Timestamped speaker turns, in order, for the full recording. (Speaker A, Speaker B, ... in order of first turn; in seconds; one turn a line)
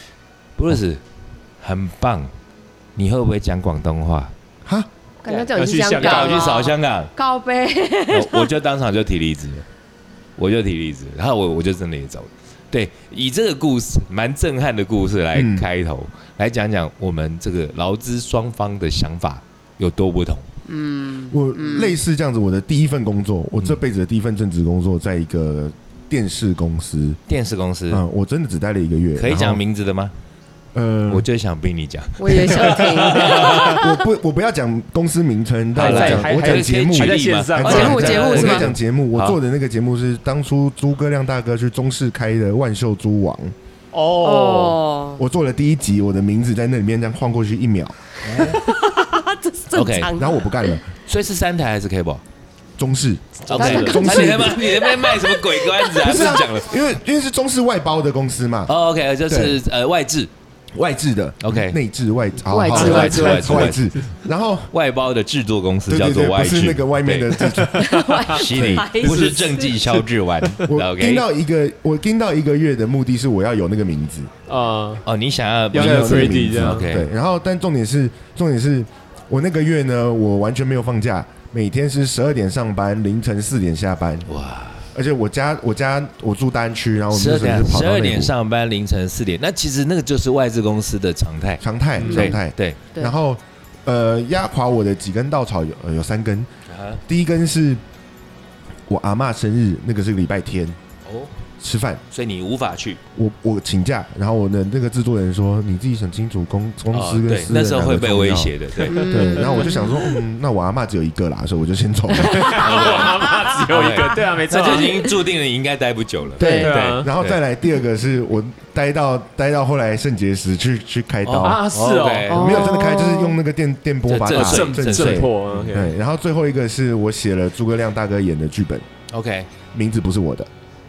Speaker A: 0.6-1.0
Speaker A: 1.6-2.3
Speaker A: 3.0-4.3
Speaker B: 5.2-8.5
Speaker A: 5.3-7.1
Speaker C: 5.5-6.6
Speaker A: 8.1-9.7
Speaker A: 10.4-20.4
Speaker D: 15.3-15.6
Speaker B: 20.6-21.9
Speaker D: 21.3-27.2
Speaker A: 27.3-28.0
Speaker D: 27.9-29.6
Speaker A: 29.1-30.1
Speaker D: 30.7-31.2
Speaker A: 31.1-33.8
Speaker B: 32.2-34.0
Speaker D: 33.2-43.5
Speaker C: 35.8-38.6
Speaker A: 35.8-39.4
Speaker B: 37.6-38.7
Speaker C: 43.9-44.8
Speaker B: 44.2-45.2
Speaker D: 45.2-48.0
Speaker A: 48.2-48.6
Speaker B: 48.4-50.8
Speaker A: 49.7-50.1
Speaker D: 50.1-50.8
Speaker A: 51.0-52.2
Speaker D: 52.8-54.7
Speaker A: 53.5-56.8
Speaker C: 53.5-54.0
Speaker B: 53.6-56.0
Speaker D: 56.0-58.7
Speaker A: 58.7-60.3
Speaker D: 59.3-59.6
Speaker D: 60.7-64.7
Speaker A: 61.4-61.8
Speaker B: 62.5-63.4
Speaker A: 62.7-63.9
Speaker C: 62.7-64.1
Speaker A: 64.7-67.6
Speaker D: 65.9-67.8
Speaker C: 67.5-68.3
Speaker B: 67.7-69.7
Speaker A: 68.3-71.2
Speaker D: 68.5-68.9
Speaker C: 69.0-70.7
Speaker D: 70.7-74.3
Speaker C: 74.5-75.0
Speaker A: 75.0-77.1
Speaker C: 75.7-76.8
Speaker D: 75.7-84.3
Speaker A: 84.3-84.9
Speaker D: 84.9-88.3
Speaker A: 87.1-92.8
Speaker D: 91.6-96.5
Speaker B: 92.0-92.3
Speaker A: 96.7-97.0
Speaker D: 97.0-97.8
Speaker D: 98.9-100.8
Speaker A: 101.0-101.3
Speaker D: 101.6-102.0
Speaker A: 102.1-103.0
Speaker D: 103.1-113.1
Speaker C: 106.9-107.2
Speaker A: 107.2-109.0
Speaker B: 108.9-110.1
Speaker C: 108.9-110.0
Speaker C: 112.2-115.2
Speaker A: 112.6-117.4
Speaker B: 113.0-113.3
Speaker D: 116.4-121.6
Speaker B: 116.4-116.8
Speaker C: 116.4-117.1
Speaker A: 121.2-122.7
Speaker C: 121.4-122.6
Speaker B: 122.3-123.4
Speaker D: 122.3-128.8
Speaker A: 124.1-125.7
Speaker C: 124.3-125.9
Speaker A: 129.1-129.5
Speaker D: 129.7-130.5